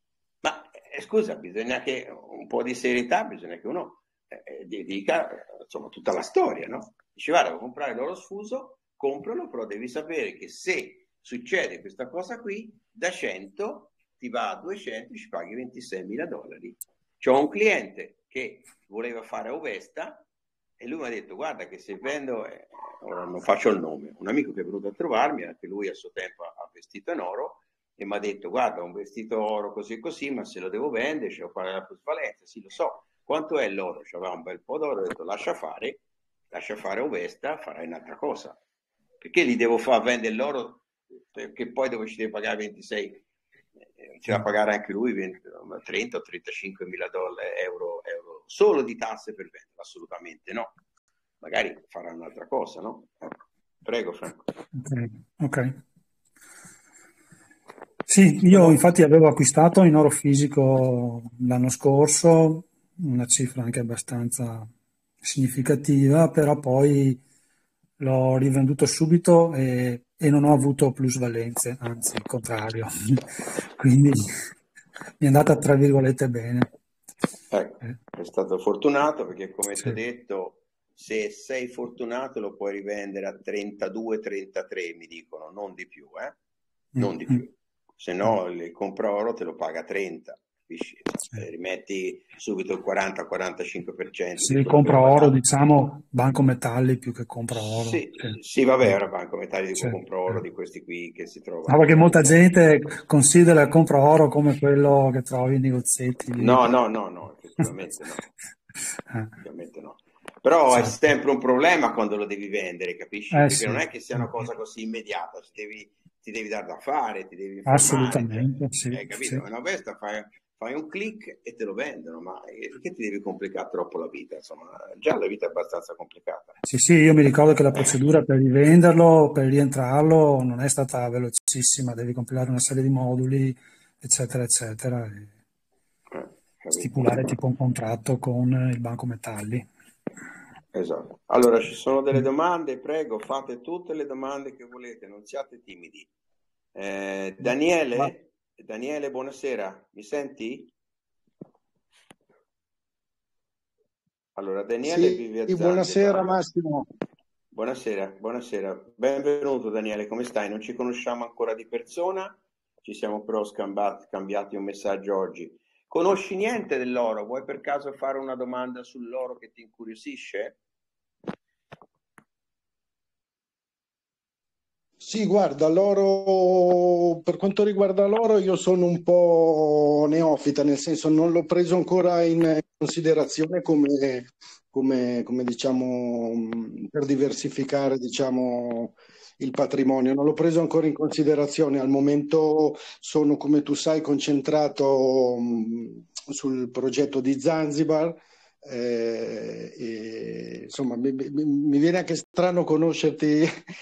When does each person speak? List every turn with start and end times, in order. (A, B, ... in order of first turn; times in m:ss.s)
0:00.4-0:20.2 A
0:20.8-0:36.0 A
0:36.5-0:38.6 A
0:39.2-0:43.2 A
0:44.0-0:50.7 A
0:51.4-0:54.4 A
0:54.8-0:55.8 B
0:58.1-1:04.7 B
0:58.5-0:58.8 A
1:05.2-1:07.2 B
1:08.0-1:13.2 B
1:13.8-1:14.3 B
1:15.2-1:16.7 B
1:17.5-1:26.4 A
1:27.0-1:35.4 A
1:34.4-1:38.9 B
1:37.5-1:42.4 A
1:39.8-1:40.4 B
1:41.7-1:46.6 B
1:46.4-1:48.3 A
1:49.4-2:06.6 A
1:53.3-1:54.4 B
1:57.7-1:59.4 B
2:06.6-2:15.3 B
2:16.1-2:17.3 A
2:16.8-2:19.7 B
2:20.7-2:26.1 A
2:26.7-2:30.7 A
2:34.4-2:36.3 A
2:34.8-2:36.9 C
2:37.5-2:50.6 A
2:55.0-3:23.5 C